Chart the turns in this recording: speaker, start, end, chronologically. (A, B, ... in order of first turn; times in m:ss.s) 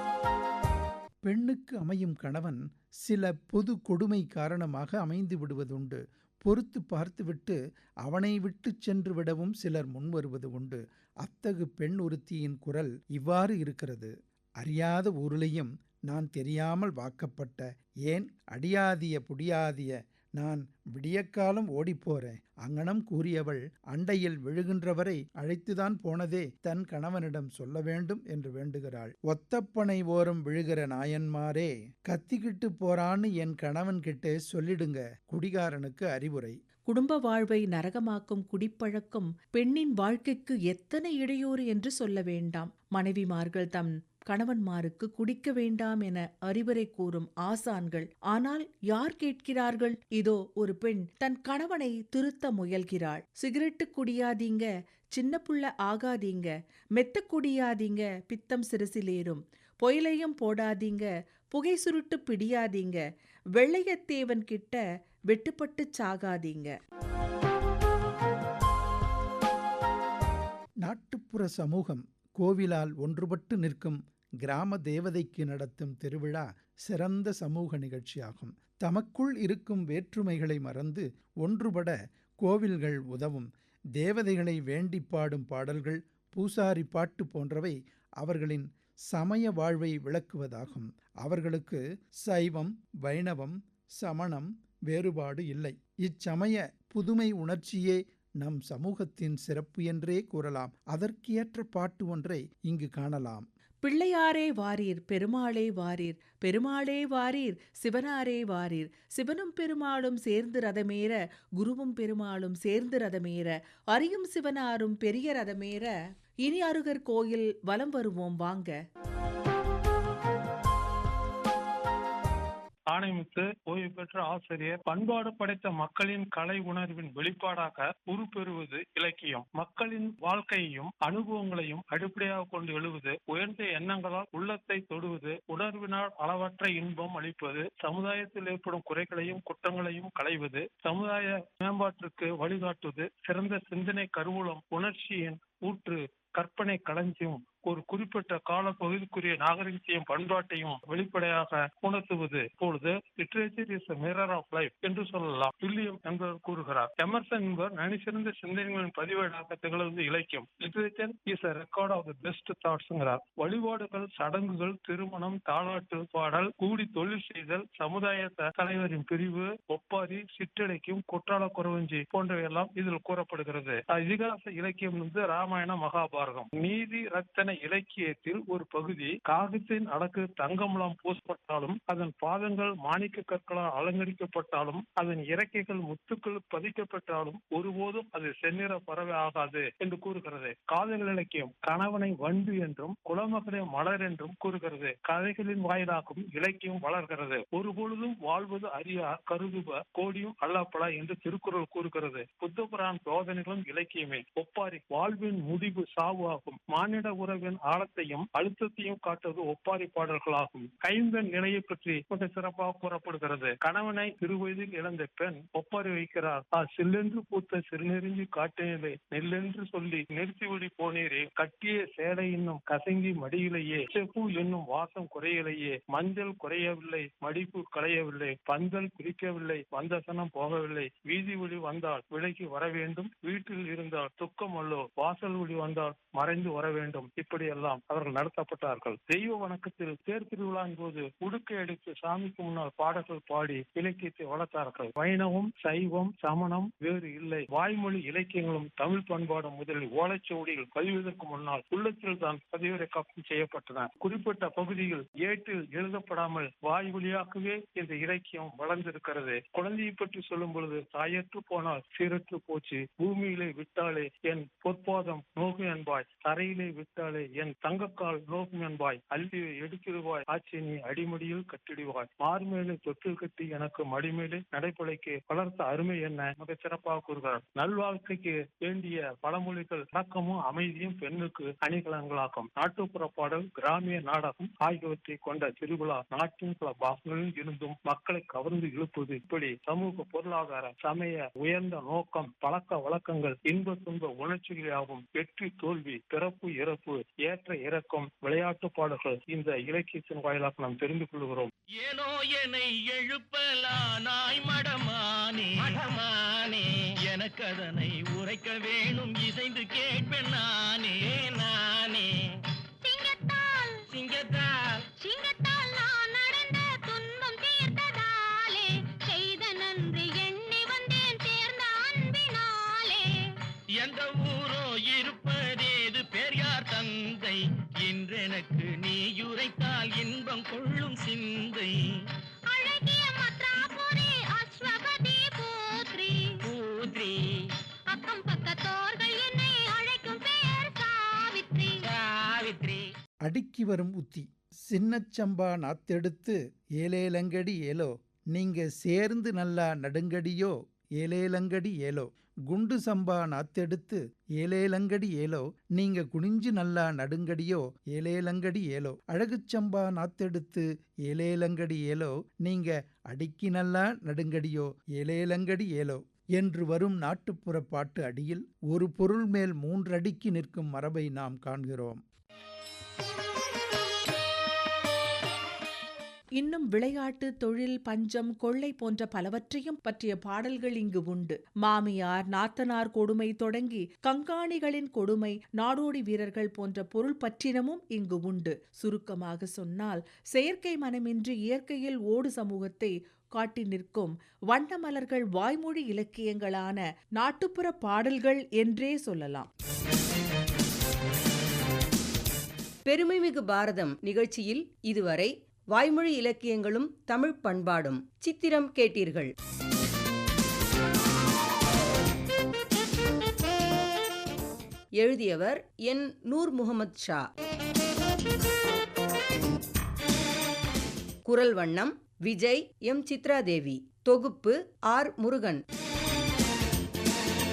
0:01.3-0:36.6 A
0:36.9-1:03.0 B
1:03.6-1:06.7 B
1:10.8-1:43.5 A
1:43.8-1:55.9 B
1:56.4-1:58.7 B
2:02.9-5:01.5 C
5:01.8-5:12.1 D
5:12.8-5:13.8 E
5:13.9-5:14.5 D
5:15.0-5:23.0 E
5:23.8-5:31.8 D
5:32.5-5:36.3 E
5:36.5-5:37.2 D
5:37.9-5:41.9 E
5:42.0-5:42.8 D
5:43.2-6:12.0 A
6:16.4-6:39.5 B
6:42.9-6:49.3 F
6:55.0-6:57.2 F
7:01.3-7:05.6 F